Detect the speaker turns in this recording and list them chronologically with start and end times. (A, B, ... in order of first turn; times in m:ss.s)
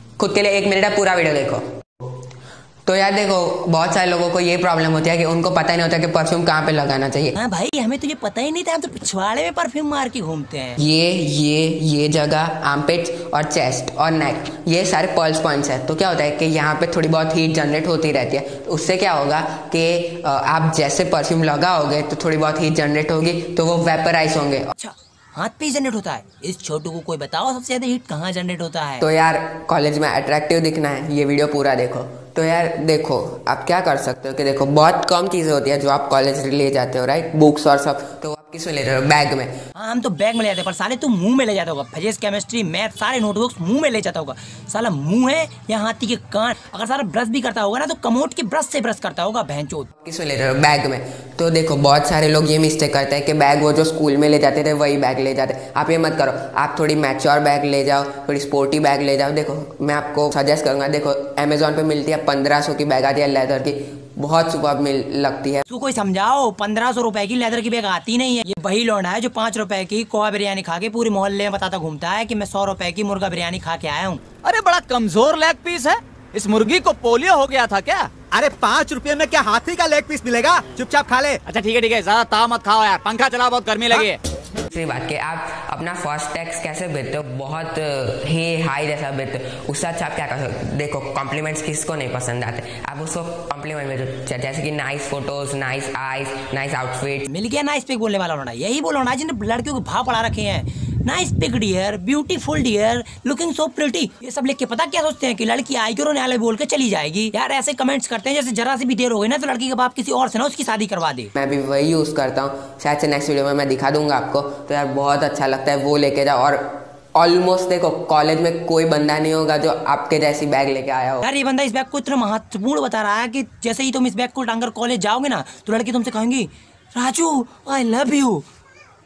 0:00.2-0:01.6 A
0:02.8-0:07.3 A
0:07.3-0:10.8 B
0:10.8-0:24.7 A
0:24.8-0:29.0 B
0:29.0-0:39.5 A
0:39.7-0:49.9 B
0:50.0-1:05.6 A
1:05.7-1:14.2 B
1:14.4-1:18.1 C
1:18.3-1:21.4 D
1:21.4-1:24.2 C
1:24.7-1:37.3 A
1:37.3-1:51.3 B
1:51.3-2:01.2 A
2:01.2-2:08.4 B